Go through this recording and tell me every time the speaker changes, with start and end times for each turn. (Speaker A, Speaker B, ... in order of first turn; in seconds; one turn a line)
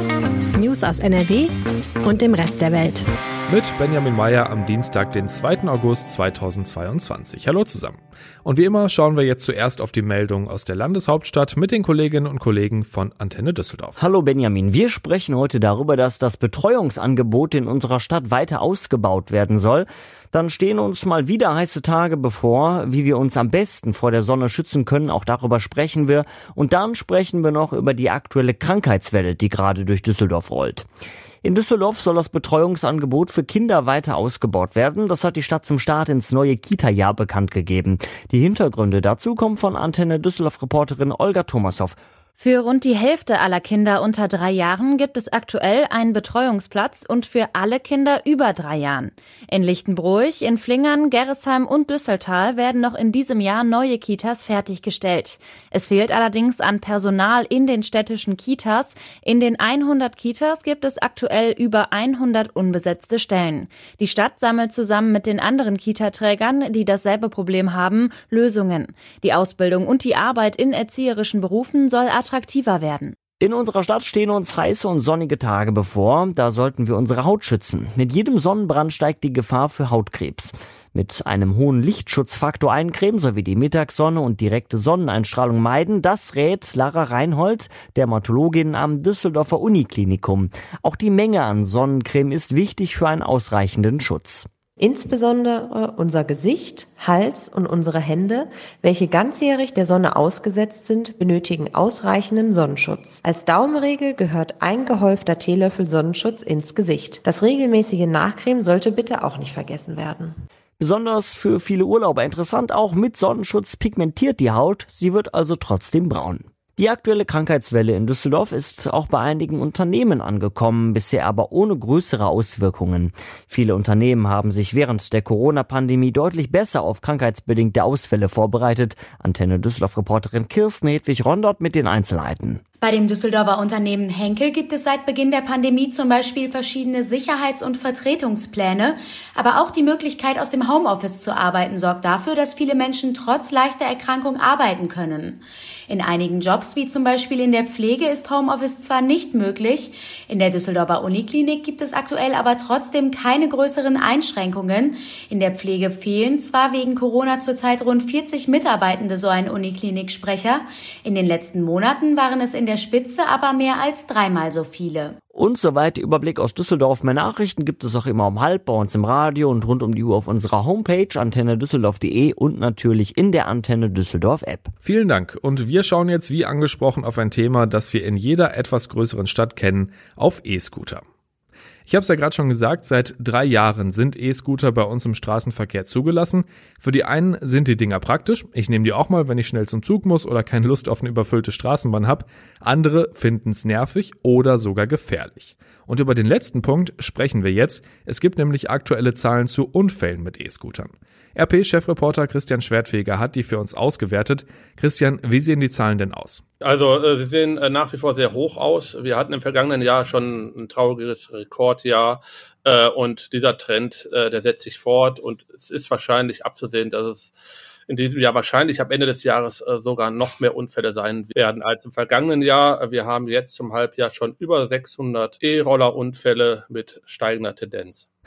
Speaker A: 0.6-3.1
Speaker B: 3.5-14.0
Speaker C: 14.0-30.9
Speaker C: 31.4-42.0
Speaker D: 42.4-73.2
Speaker C: 73.4-94.5
Speaker E: 94.8-110.3
Speaker C: 110.8-132.6
Speaker F: 132.8-165.2
Speaker C: 165.3-174.7
Speaker B: 174.8-181.0
Speaker B: 181.9-206.4
Speaker G: 206.6-217.3
Speaker G: 217.9-228.1